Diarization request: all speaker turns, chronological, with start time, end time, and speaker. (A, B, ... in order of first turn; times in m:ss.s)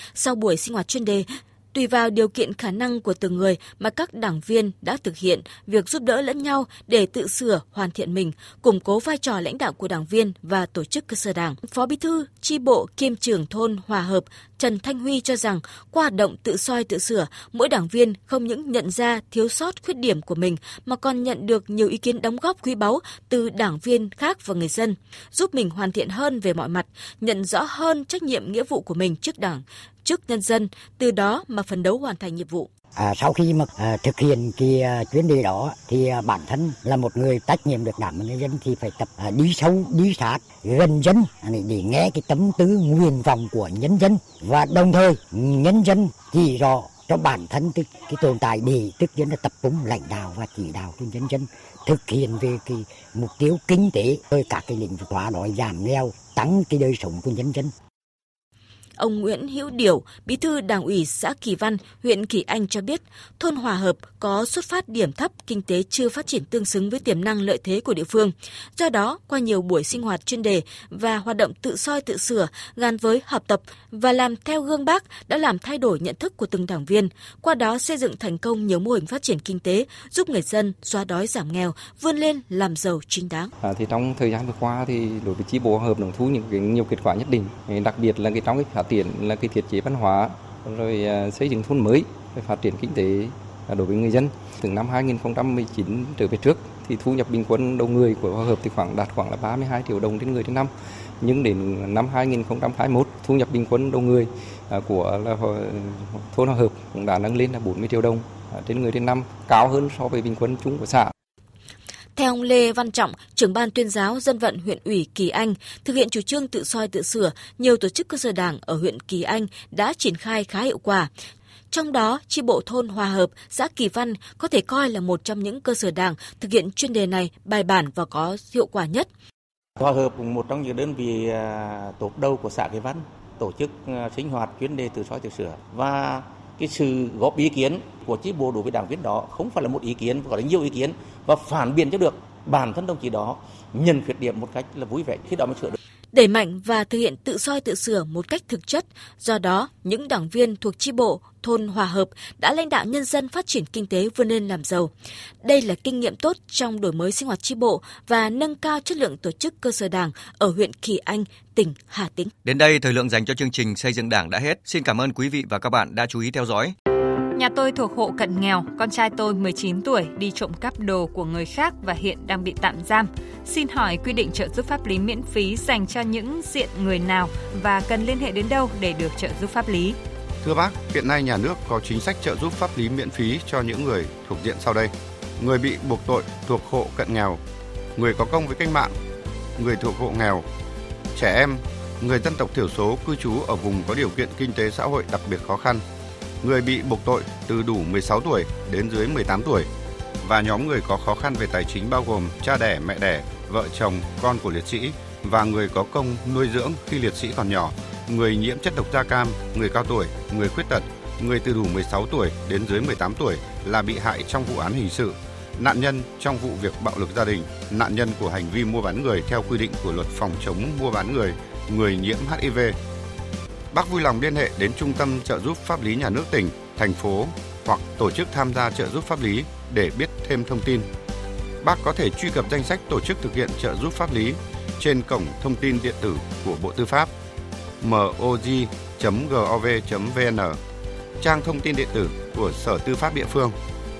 0:00.1-0:32.7 A
0:33.0-0:57.7 B
0:59.0-1:23.5 A
1:23.6-1:51.1 C
1:52.1-2:01.1 A
2:01.7-2:09.1 A
2:09.8-2:25.8 D
2:26.1-2:34.9 A
2:35.4-2:42.3 A
2:42.4-2:46.7 E
2:47.3-3:00.0 F
3:00.4-3:07.4 G
3:08.0-3:08.9 G
3:09.6-3:10.4 G
3:11.2-3:15.8 G
3:16.4-3:19.7 G
3:20.2-3:42.8 G
3:43.7-3:50.9 G
3:51.6-3:57.1 G
3:57.8-4:00.6 G
4:01.2-4:03.5 G